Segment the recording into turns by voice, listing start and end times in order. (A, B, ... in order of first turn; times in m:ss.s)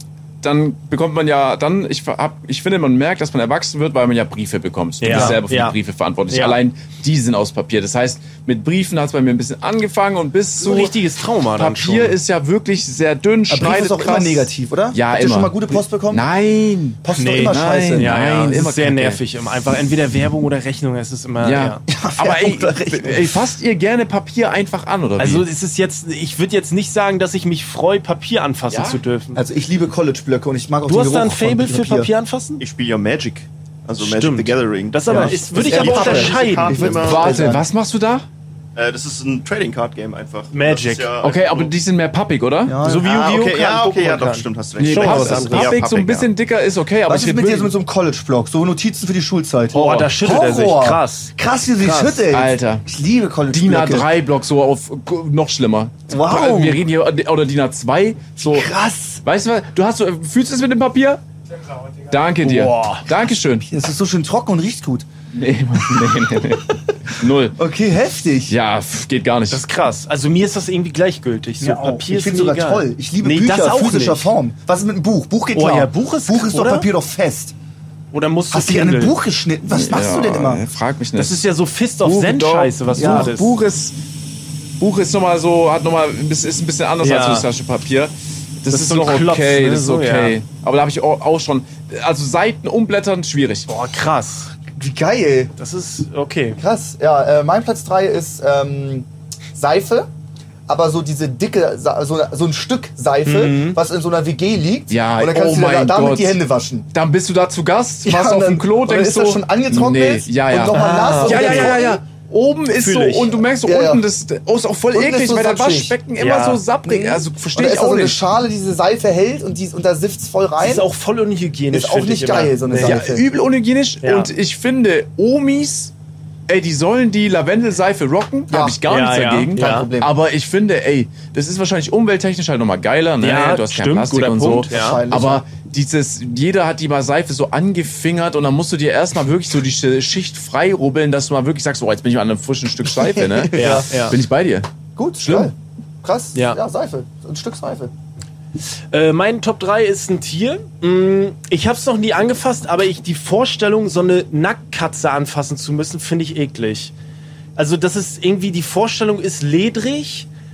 0:00.4-0:10.9 A
0:05.0-0:05.8 B
0:05.1-0:05.4 C
0:06.3-0:06.6 B
0:10.6-0:12.2 B
0:11.6-0:15.6 A
0:13.5-0:16.3 C
0:16.1-0:19.2 A
0:17.0-0:18.1 C
0:17.2-0:21.8 B
0:21.4-0:25.4 A
0:21.9-0:23.4 C
0:25.2-0:29.4 B
0:28.7-0:29.0 A
0:29.4-0:32.1 C
0:30.9-0:32.6 B
0:32.6-0:37.4 D
0:34.0-0:37.0 B
0:35.1-0:37.7 C
0:37.0-0:38.3 A
0:38.8-0:41.7 D
0:40.5-0:41.2 B
0:41.2-0:43.6 A
0:42.7-0:43.4 C
0:42.8-0:46.3 D
0:43.4-0:45.8 B
0:44.8-0:47.8 A
0:47.1-0:54.1 C
0:49.7-0:50.1 A
0:49.7-0:52.2 B
0:52.3-0:52.9 A
0:53.5-0:58.7 A
0:56.1-0:56.8 C
0:58.4-0:59.2 C
0:59.2-1:01.2 A
1:02.1-1:03.7 A
1:02.4-1:03.0 B
1:03.7-1:05.1 C
1:05.3-1:07.6 A
1:07.6-1:08.6 C
1:08.5-1:09.6 A
1:09.5-1:14.3 B
1:11.6-1:17.6 C
1:15.5-1:16.9 B
1:18.1-1:19.1 B
1:18.5-1:20.6 C
1:19.7-1:21.4 A
1:21.2-1:23.6 B
1:22.0-1:24.0 A
1:23.0-1:23.3 C
1:24.8-1:33.7 A
1:27.0-1:27.5 B
1:28.7-1:30.4 B
1:33.7-1:34.5 B
1:34.7-1:35.5 C
1:35.6-1:36.6 B
1:36.6-1:40.1 C
1:40.7-1:46.9 C
1:43.2-1:43.8 B
1:44.9-1:46.4 A
1:46.9-1:58.2 A
1:48.0-1:52.0 C
1:50.7-1:51.8 B
1:52.8-1:53.4 B
1:53.6-1:54.0 C
1:54.9-1:56.0 C
1:56.2-1:56.6 B
1:56.8-2:00.9 C
2:00.6-2:03.0 B
2:01.7-2:03.2 C
2:02.8-2:05.9 A
2:04.0-2:04.3 B
2:06.5-2:24.7 A
2:08.5-2:08.8 C
2:08.9-2:09.9 B
2:09.5-2:10.1 C
2:13.2-2:15.0 B
2:14.7-2:15.4 C
2:22.9-2:23.9 C
2:23.6-2:24.2 B
2:25.0-2:27.9 C
2:25.2-2:25.5 A
2:28.9-2:36.9 B
2:37.6-2:40.3 B